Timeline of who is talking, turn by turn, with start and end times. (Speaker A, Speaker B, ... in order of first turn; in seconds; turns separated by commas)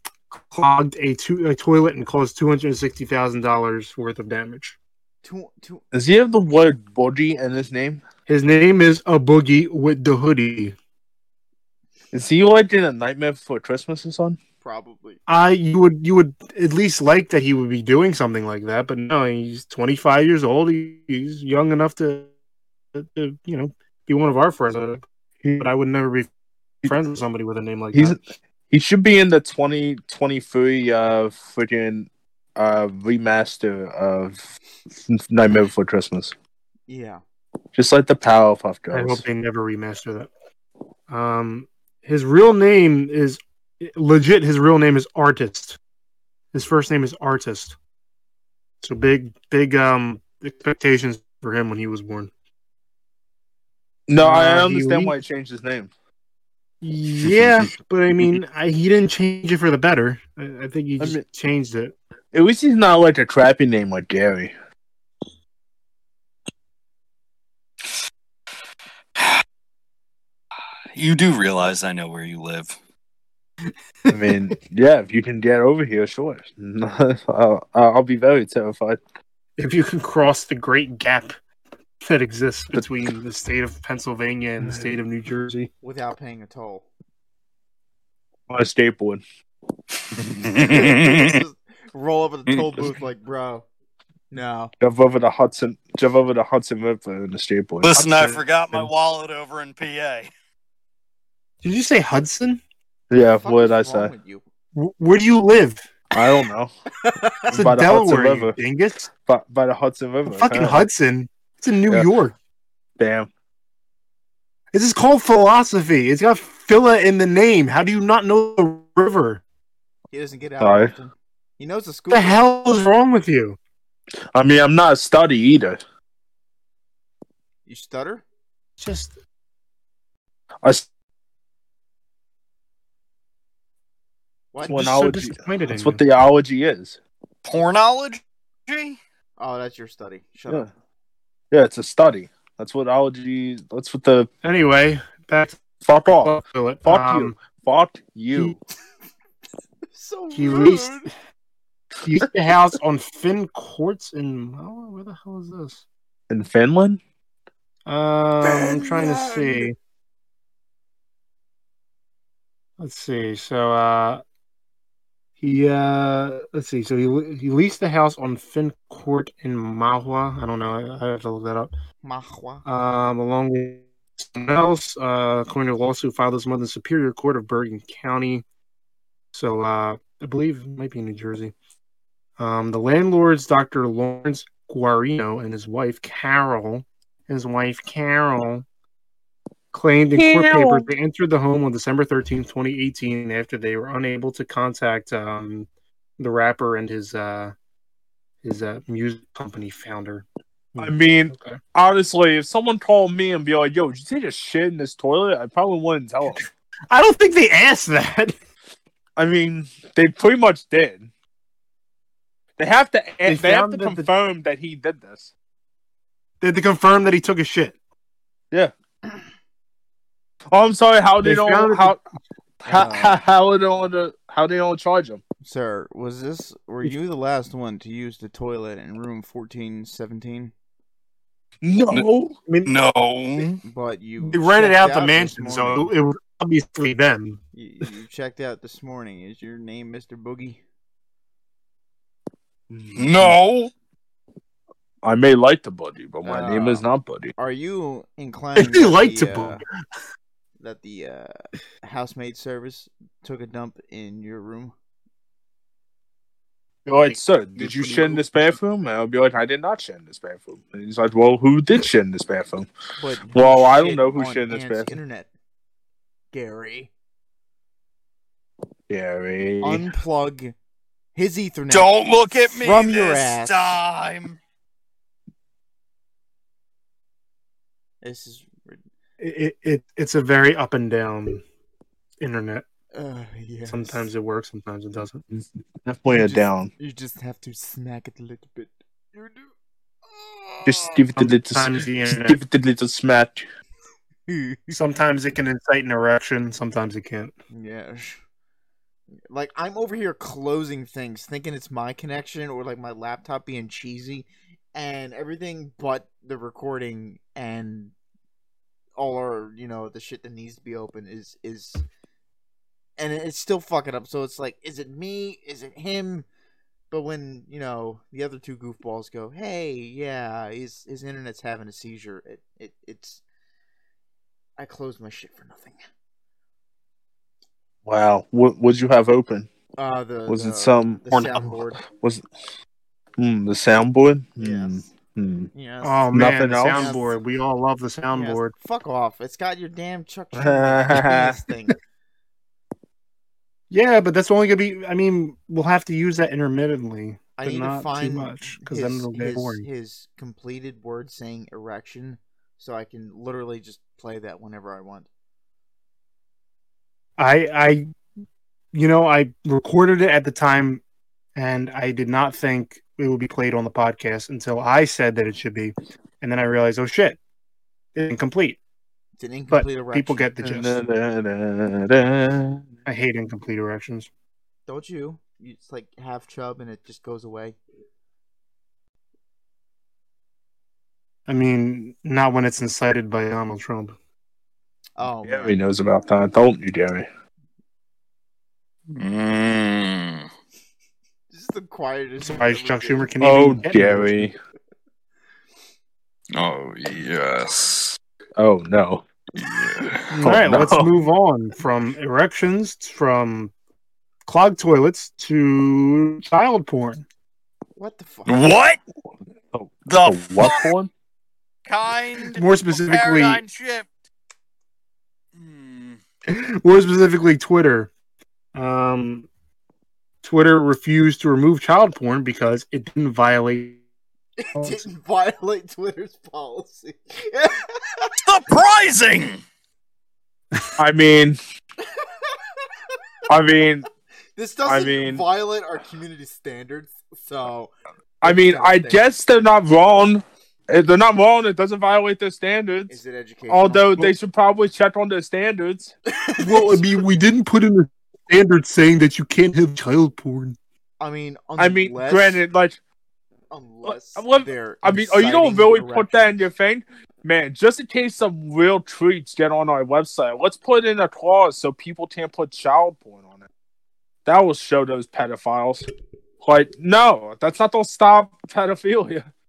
Speaker A: 0.3-4.8, Speaker B: 5.2-5.8, Speaker C: 5.9-8.0, Speaker A: 8.3-10.7, Speaker C: 12.1-14.4, Speaker B: 14.6-15.2, Speaker A: 15.3-22.3, Speaker A: 22.9-26.3, Speaker A: 26.8-28.2, Speaker C: 28.7-34.5, Speaker C: 35.1-36.3, Speaker B: 36.9-37.2, Speaker C: 37.7-39.2, Speaker A: 38.9-40.3, Speaker A: 41.1-45.8, Speaker A: 46.5-47.8, Speaker A: 48.8-52.3, Speaker C: 54.1-55.9, Speaker A: 54.2-55.1, Speaker A: 56.8-62.0, Speaker C: 57.2-57.7, Speaker C: 62.3-64.5, Speaker D: 70.9-72.8, Speaker A: 74.0-74.3, Speaker C: 74.1-79.0, Speaker A: 79.6-81.3, Speaker A: 82.0-85.5, Speaker C: 84.6-85.7, Speaker B: 85.8-86.8, Speaker C: 88.5-89.2, Speaker D: 90.3-91.4, Speaker B: 90.7-93.7, Speaker B: 94.3-94.7, Speaker C: 94.8-98.9, Speaker D: 97.8-100.3, Speaker A: 101.6-102.6, Speaker C: 103.1-104.1, Speaker B: 103.3-104.4, Speaker A: 104.7-105.8, Speaker C: 106.1-106.7, Speaker B: 107.0-107.4, Speaker C: 107.5-108.5, Speaker A: 107.5-109.1, Speaker C: 109.2-110.8, Speaker A: 110.3-112.3, Speaker C: 113.0-113.3, Speaker A: 114.7-119.4, Speaker B: 120.1-122.4, Speaker C: 120.6-120.9, Speaker A: 122.1-123.6, Speaker C: 124.3-125.8, Speaker B: 127.7-128.2, Speaker A: 128.8-129.1, Speaker A: 134.6-136.0, Speaker C: 134.6-137.0, Speaker D: 137.4-139.0, Speaker B: 139.4-140.7, Speaker C: 141.5-144.3, Speaker A: 144.4-145.6, Speaker C: 145.8-148.6, Speaker A: 146.2-147.4, Speaker B: 149.9-151.1, Speaker A: 150.3-151.0, Speaker A: 152.0-155.8, Speaker C: 156.3-157.0, Speaker A: 157.9-159.7, Speaker B: 158.4-159.7, Speaker A: 162.8-164.2, Speaker A: 165.4-171.7, Speaker B: 172.0-172.6, Speaker A: 172.6-178.4, Speaker A: 179.3-181.5, Speaker A: 182.4-188.6, Speaker A: 189.7-195.7, Speaker C: 190.1-190.9, Speaker A: 196.2-197.5, Speaker A: 198.4-201.6, Speaker C: 200.8-206.4, Speaker A: 206.9-208.3, Speaker C: 209.2-211.1, Speaker C: 212.6-215.3, Speaker A: 213.2-214.1, Speaker A: 216.4-217.7, Speaker C: 220.5-222.0, Speaker A: 221.2-221.9, Speaker C: 222.6-225.2, Speaker B: 222.7-223.2, Speaker B: 225.4-230.5, Speaker C: 231.6-232.7, Speaker D: 232.6-233.6, Speaker B: 233.6-235.9, Speaker A: 234.2-237.4, Speaker B: 237.5-240.6, Speaker C: 242.7-243.4, Speaker D: 242.9-243.7, Speaker C: 245.0-247.3, Speaker B: 246.2-246.8, Speaker B: 247.4-249.6, Speaker A: 248.6-249.6, Speaker B: 250.6-254.7, Speaker C: 256.9-262.7, Speaker A: 257.1-258.4, Speaker B: 263.0-265.3, Speaker C: 263.3-264.9, Speaker B: 266.3-266.9, Speaker C: 268.9-269.9, Speaker B: 269.6-270.5, Speaker B: 271.1-271.9, Speaker D: 271.7-274.4, Speaker B: 272.5-273.8, Speaker B: 278.0-278.8, Speaker A: 279.2-281.4, Speaker A: 282.2-282.6, Speaker B: 282.9-284.1, Speaker A: 283.6-285.2, Speaker C: 285.8-286.7, Speaker B: 286.1-289.5, Speaker B: 290.1-290.7, Speaker C: 290.6-293.4, Speaker A: 291.1-292.4, Speaker B: 294.3-294.8, Speaker A: 294.7-297.3, Speaker B: 297.5-298.2, Speaker B: 299.3-307.9, Speaker B: 308.9-311.8, Speaker B: 313.0-316.2, Speaker B: 316.9-323.2, Speaker B: 324.6-325.8, Speaker C: 327.8-329.5, Speaker B: 329.8-331.8, Speaker C: 330.3-331.0, Speaker A: 331.1-331.4, Speaker C: 331.9-332.2, Speaker C: 333.2-335.5, Speaker B: 334.4-334.8, Speaker B: 335.5-336.2, Speaker A: 335.8-338.5, Speaker C: 336.1-336.9, Speaker B: 336.7-337.2, Speaker B: 338.1-341.8, Speaker C: 340.3-341.4, Speaker A: 343.7-349.6, Speaker B: 347.4-355.1, Speaker A: 357.2-357.9, Speaker A: 358.7-360.8, Speaker A: 361.4-367.2, Speaker A: 367.9-368.6, Speaker B: 369.2-370.2, Speaker A: 369.5-370.8, Speaker C: 370.4-372.7, Speaker A: 372.9-374.1, Speaker B: 374.7-377.6, Speaker A: 381.3-383.9, Speaker B: 385.0-385.6, Speaker C: 385.2-387.1, Speaker D: 388.9-390.3, Speaker B: 391.3-393.6, Speaker A: 392.2-394.1, Speaker C: 393.2-394.3, Speaker D: 396.3-398.0, Speaker C: 398.4-399.1, Speaker D: 399.4-400.1, Speaker A: 400.1-403.5, Speaker C: 400.2-400.9, Speaker A: 404.2-407.0, Speaker B: 407.8-408.4, Speaker D: 408.3-408.8, Speaker C: 409.5-410.9, Speaker D: 409.9-410.7, Speaker D: 411.6-413.9, Speaker A: 412.4-413.4, Speaker D: 415.4-416.0, Speaker A: 416.3-417.9, Speaker A: 418.5-419.3, Speaker A: 420.2-423.8, Speaker B: 424.4-428.1, Speaker A: 424.5-424.9, Speaker D: 428.2-429.4, Speaker C: 430.8-431.4, Speaker B: 431.8-432.4, Speaker C: 433.3-433.9, Speaker B: 434.4-437.7, Speaker C: 434.6-435.2, Speaker C: 438.2-445.9, Speaker B: 438.2-439.0, Speaker B: 442.9-444.1, Speaker B: 446.1-446.9, Speaker A: 446.4-450.6, Speaker B: 451.0-452.4, Speaker C: 451.6-452.8, Speaker B: 453.5-456.4, Speaker C: 453.8-463.5, Speaker C: 464.2-465.9, Speaker C: 466.4-469.2